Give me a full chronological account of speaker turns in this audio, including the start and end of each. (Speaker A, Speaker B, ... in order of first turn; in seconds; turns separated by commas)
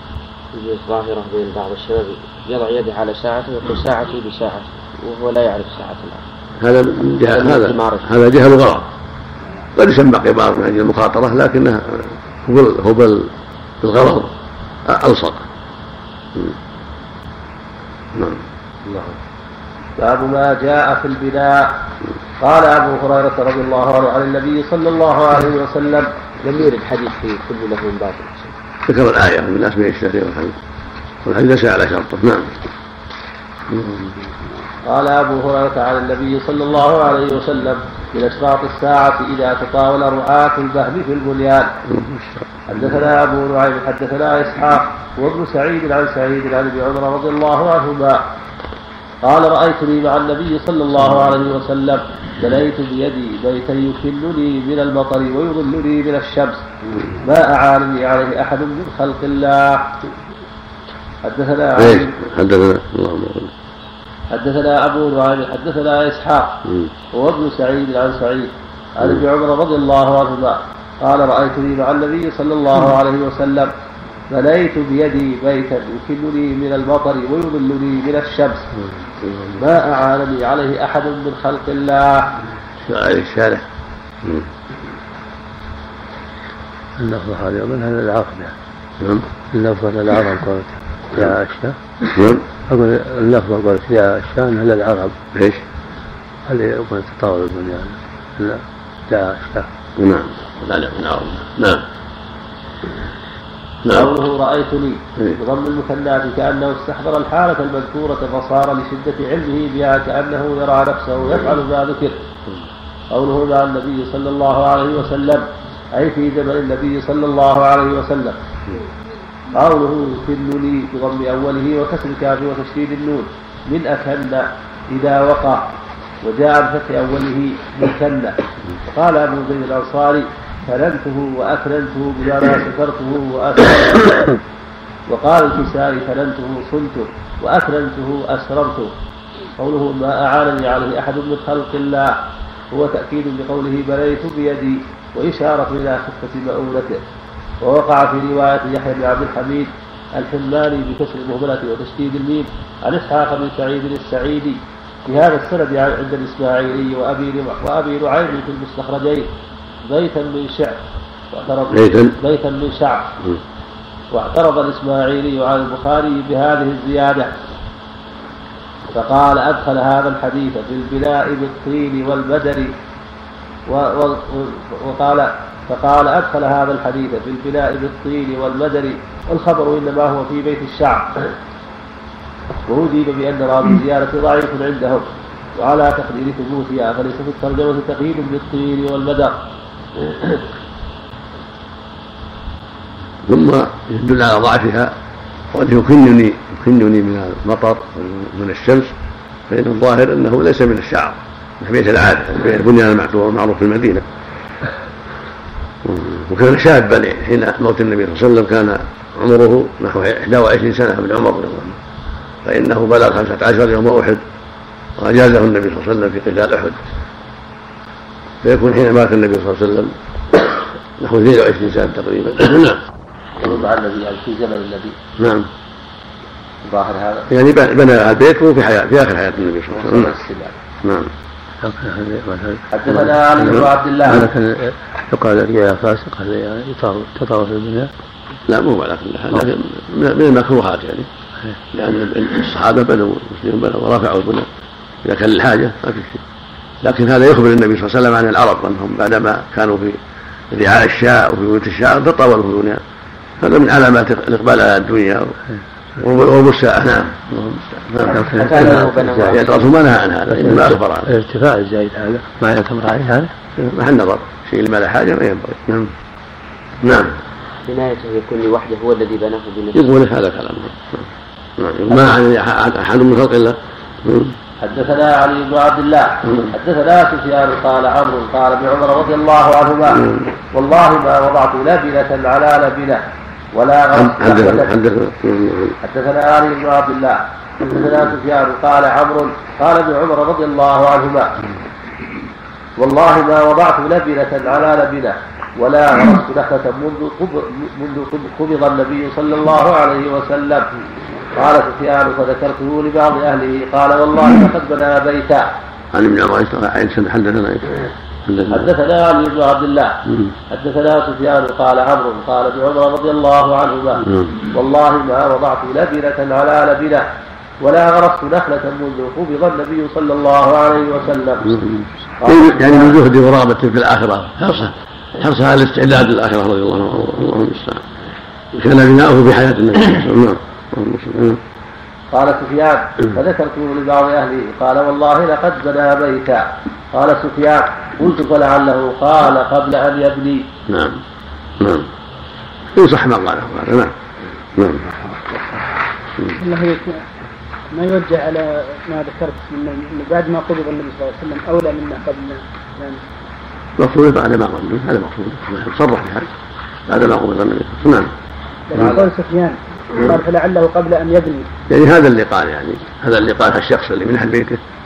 Speaker A: 0.5-6.2, Speaker B: 6.6-8.8, Speaker A: 7.3-8.1, Speaker B: 9.8-13.3, Speaker B: 13.8-14.3, Speaker B: 14.8-15.4, Speaker B: 18.1-18.4, Speaker C: 18.9-19.1, Speaker C: 20.0-21.7, Speaker C: 22.4-26.1, Speaker A: 26.4-28.5, Speaker B: 28.9-30.6, Speaker B: 31.2-32.5, Speaker B: 33.7-34.1, Speaker C: 34.9-41.7, Speaker B: 41.9-42.6, Speaker C: 42.7-48.2, Speaker C: 49.2-56.6, Speaker C: 57.2-59.9, Speaker C: 61.2-62.1, Speaker B: 61.8-63.5, Speaker C: 64.3-66.6, Speaker B: 66.6-66.9, Speaker C: 67.1-73.7, Speaker C: 74.3-78.7, Speaker B: 79.0-79.6, Speaker C: 79.6-82.2, Speaker B: 82.8-83.6, Speaker D: 87.0-88.5, Speaker D: 89.5-91.8, Speaker B: 92.1-92.4, Speaker D: 92.7-95.2, Speaker B: 95.3-95.6, Speaker D: 96.5-99.7, Speaker B: 100.0-101.8, Speaker B: 103.8-104.1, Speaker C: 103.9-112.2, Speaker C: 113.1-118.4, Speaker C: 119.5-125.6, Speaker C: 126.2-128.3, Speaker C: 128.9-134.2, Speaker C: 135.1-138.9, Speaker C: 139.6-142.1, Speaker C: 142.7-147.0, Speaker C: 147.6-159.3, Speaker C: 159.9-160.8, Speaker C: 161.3-163.1, Speaker B: 161.7-162.1, Speaker C: 164.1-167.3, Speaker C: 168.9-172.7, Speaker C: 173.7-181.3, Speaker C: 182.7-189.3, Speaker B: 193.2-194.9, Speaker B: 195.5-198.9, Speaker B: 199.5-204.1, Speaker B: 205.8-211.8, Speaker B: 212.4-214.2, Speaker B: 215.0-216.8, Speaker B: 218.4-222.8, Speaker C: 223.4-224.9, Speaker B: 225.2-225.5, Speaker C: 226.6-227.3, Speaker B: 227.3-230.2, Speaker C: 229.7-230.6, Speaker B: 230.8-231.1, Speaker D: 231.6-233.2, Speaker C: 232.7-234.3, Speaker D: 234.1-237.9, Speaker B: 238.5-241.1, Speaker B: 241.7-244.5, Speaker B: 245.0-246.2, Speaker B: 246.8-252.8, Speaker B: 253.4-255.4, Speaker B: 256.0-261.1, Speaker D: 258.1-259.3, Speaker A: 258.2-259.7, Speaker D: 260.3-263.3, Speaker B: 263.6-265.9, Speaker B: 266.8-267.2, Speaker A: 267.6-269.9, Speaker B: 269.7-271.1, Speaker B: 271.6-274.4, Speaker C: 274.6-280.0, Speaker B: 276.2-276.5, Speaker B: 279.9-280.2, Speaker C: 280.5-283.0, Speaker C: 283.5-284.7, Speaker B: 283.9-285.8, Speaker C: 285.8-291.3, Speaker C: 292.8-300.6, Speaker C: 301.4-305.5, Speaker B: 305.9-308.7, Speaker C: 308.5-309.9, Speaker C: 310.5-317.1, Speaker B: 314.0-314.4, Speaker C: 317.6-321.6, Speaker C: 322.2-323.0, Speaker B: 322.2-327.9, Speaker B: 328.5-331.4, Speaker C: 332.1-340.4, Speaker B: 340.7-341.0, Speaker B: 341.6-341.9, Speaker B: 342.8-343.9, Speaker B: 344.6-344.9, Speaker E: 346.4-346.9, Speaker E: 347.7-353.0, Speaker B: 353.8-356.3, Speaker B: 356.9-358.1, Speaker E: 358.7-361.4, Speaker B: 358.7-359.0, Speaker B: 361.7-364.6